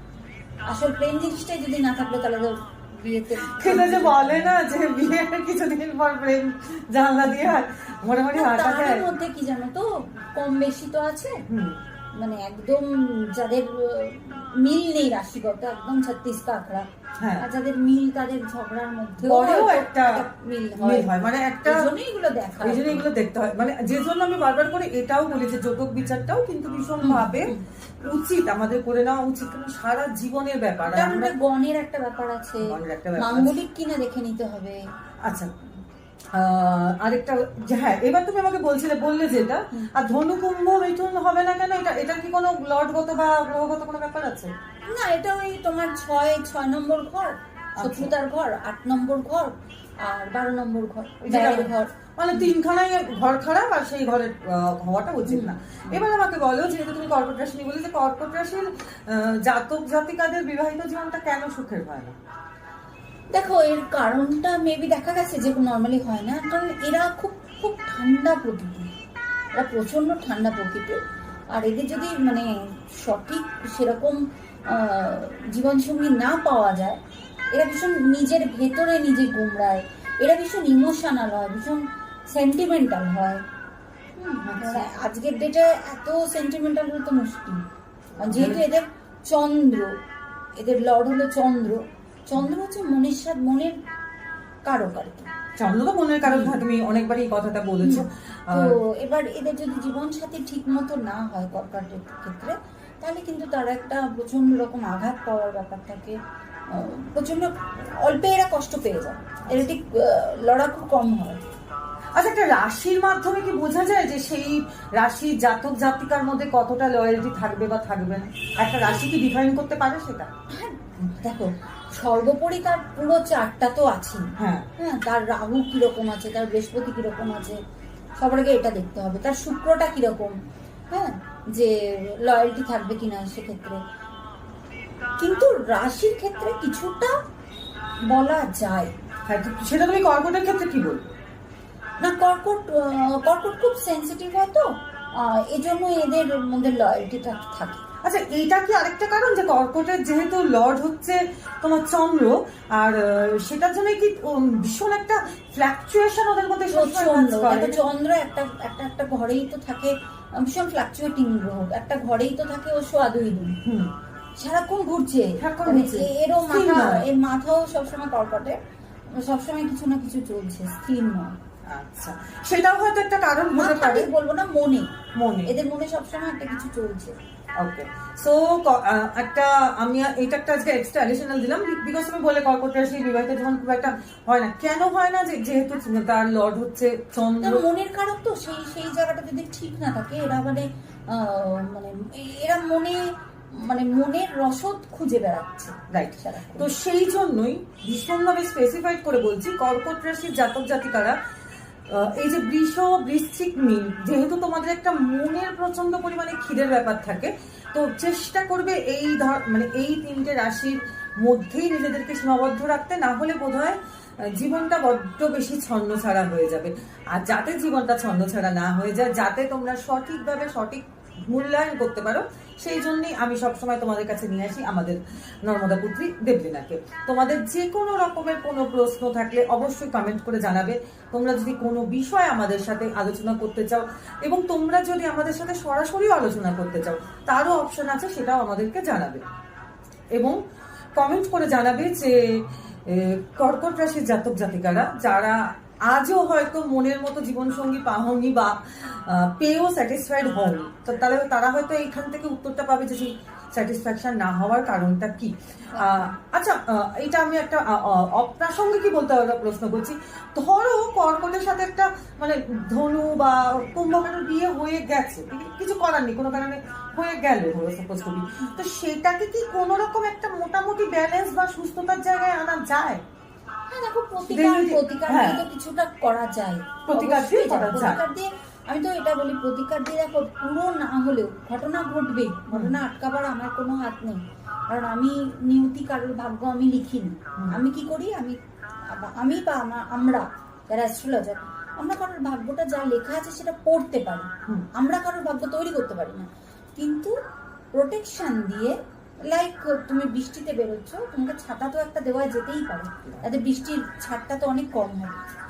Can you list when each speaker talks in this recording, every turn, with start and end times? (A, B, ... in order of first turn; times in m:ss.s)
0:00.7-0:04.6 A
0:03.4-0:09.1 B
0:08.3-0:11.4 A
0:11.5-0:11.8 B
0:12.1-0:16.9 A
0:17.2-0:17.4 B
0:17.4-0:21.1 A
0:19.2-0:20.2 B
0:20.8-0:21.9 B
0:21.6-0:23.0 A
0:22.6-0:31.3 B
0:27.0-0:27.6 A
0:30.8-0:34.8 A
0:32.6-0:33.6 B
0:35.2-0:35.6 B
0:36.3-0:44.5 B
0:44.9-0:51.9 A
0:47.8-0:48.1 B
0:51.2-1:02.2 B
0:55.3-0:56.0 A
1:03.3-1:08.9 A
1:09.6-1:17.0 A
1:17.5-1:23.4 A
1:24.2-1:27.6 A
1:24.4-1:24.9 B
1:28.2-1:28.6 B
1:28.2-1:30.0 A
1:30.6-1:33.8 A
1:34.6-1:35.3 A
1:35.6-1:38.7 B
1:36.2-1:36.6 A
1:37.8-1:51.5 A
1:52.1-2:00.3 B
2:00.5-2:07.6 A
2:04.4-2:04.7 B
2:08.2-2:10.4 A
2:10.9-2:13.8 A
2:15.2-2:17.2 A
2:18.0-2:18.9 A
2:19.3-2:21.2 B
2:22.0-2:27.8 A
2:28.0-2:37.8 B
2:36.7-2:43.6 A
2:43.6-2:43.9 B
2:44.4-2:48.6 A
2:45.4-2:47.0 B
2:49.1-2:51.4 A
2:51.6-2:54.1 B
2:53.6-2:54.9 A
2:55.1-2:55.5 B
2:55.4-2:57.2 A
2:57.6-3:07.6 B
3:07.4-3:16.7 A
3:15.9-3:21.2 B
3:21.9-3:59.2 B
4:00.1-4:00.4 B
4:01.0-4:33.0 B
4:15.7-4:16.1 A
4:33.7-4:57.1 A
4:34.2-4:35.4 B
4:36.9-4:38.0 B
4:57.7-5:05.2 A